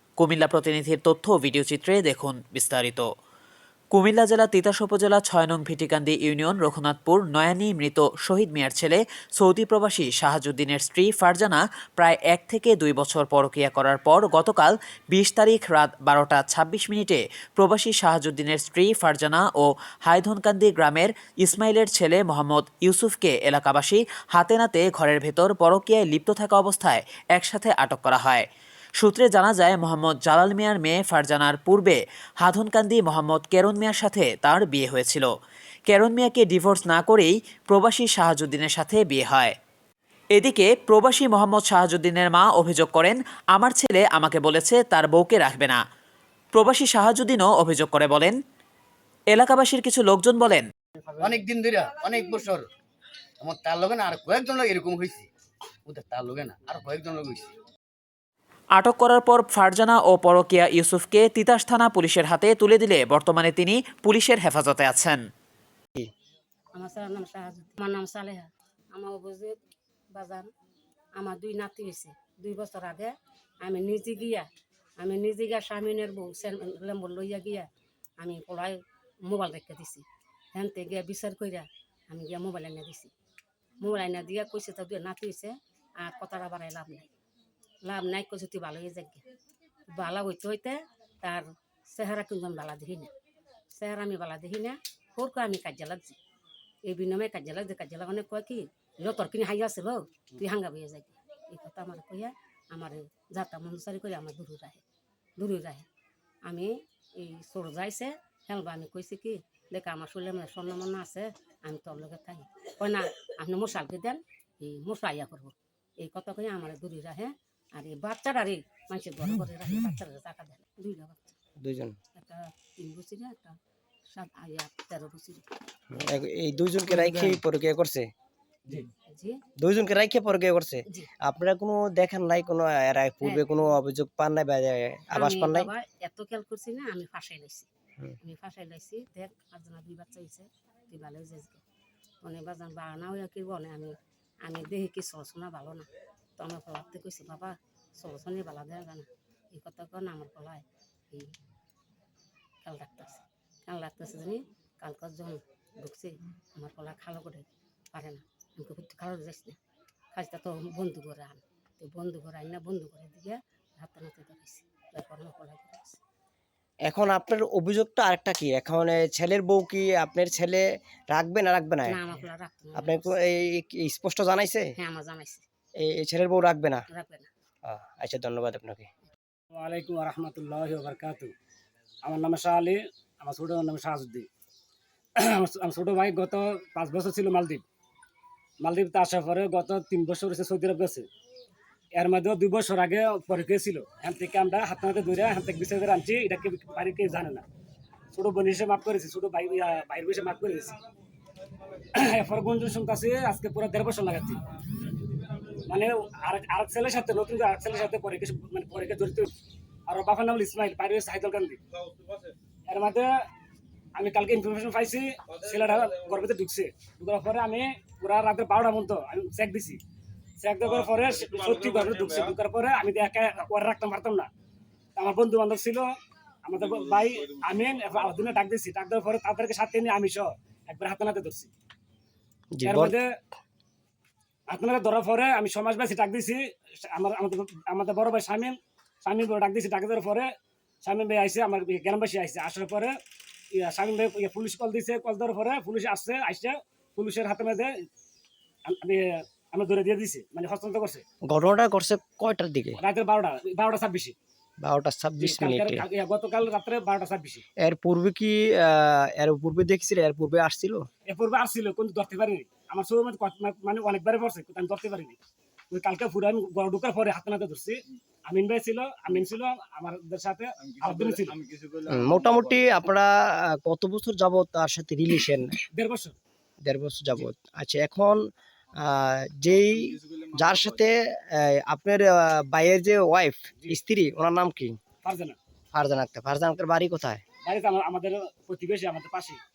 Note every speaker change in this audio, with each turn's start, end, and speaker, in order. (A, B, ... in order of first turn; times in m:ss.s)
0:00.2-0:03.0 A
0:03.9-0:28.5 A
0:29.0-0:35.3 A
0:35.9-0:39.6 A
0:40.3-0:45.8 A
0:46.5-0:48.4 A
0:49.3-0:50.7 A
0:51.2-0:52.7 B
0:53.4-0:55.3 B
0:55.9-0:57.5 B
0:58.8-1:05.2 A
1:06.8-1:09.6 C
1:10.1-1:10.5 C
1:11.2-1:14.5 C
1:15.0-1:23.1 C
1:23.8-1:27.1 C
1:27.8-1:29.2 C
1:29.9-1:33.1 C
1:33.7-1:36.2 C
1:36.8-1:44.8 C
1:45.4-1:45.9 C
1:46.5-2:01.4 C
2:01.6-2:02.0 D
2:02.2-2:05.4 C
2:05.9-2:08.1 D
2:09.1-2:09.4 C
2:09.6-2:15.7 D
2:15.2-2:17.7 C
2:18.2-2:21.6 C
2:22.2-2:31.4 C
2:32.6-2:39.6 C
2:40.1-2:46.0 C
2:46.8-2:52.0 D
2:51.9-2:53.1 C
2:52.8-2:54.7 D
2:54.8-2:55.4 C
2:55.8-2:56.8 D
2:56.9-2:57.3 C
2:57.6-2:58.9 D
2:59.5-3:01.3 E
3:02.0-3:04.3 E
3:05.2-3:07.6 E
3:08.6-3:11.1 E
3:12.0-3:17.5 E
3:18.1-3:20.8 E
3:21.9-3:24.4 E
3:25.7-3:29.3 E
3:29.9-3:31.6 E
3:32.7-3:33.2 E
3:34.0-3:39.8 E
3:40.4-3:44.3 E
3:45.0-3:51.5 E
3:52.5-3:52.9 D
3:52.6-3:53.1 E
3:54.5-4:03.0 E
4:03.5-4:07.8 E
4:08.7-4:11.0 E
4:11.3-4:12.8 D
4:12.8-4:14.2 E
4:14.6-4:15.9 D
4:15.2-4:17.4 E
4:17.6-4:20.9 D
4:21.1-4:25.2 E
4:25.7-4:31.4 E
4:31.9-4:35.6 D
4:35.7-4:36.2 E
4:36.6-4:38.2 D
4:38.8-4:44.8 D
4:45.0-4:45.4 E
4:45.7-4:47.2 D
4:47.4-4:49.4 E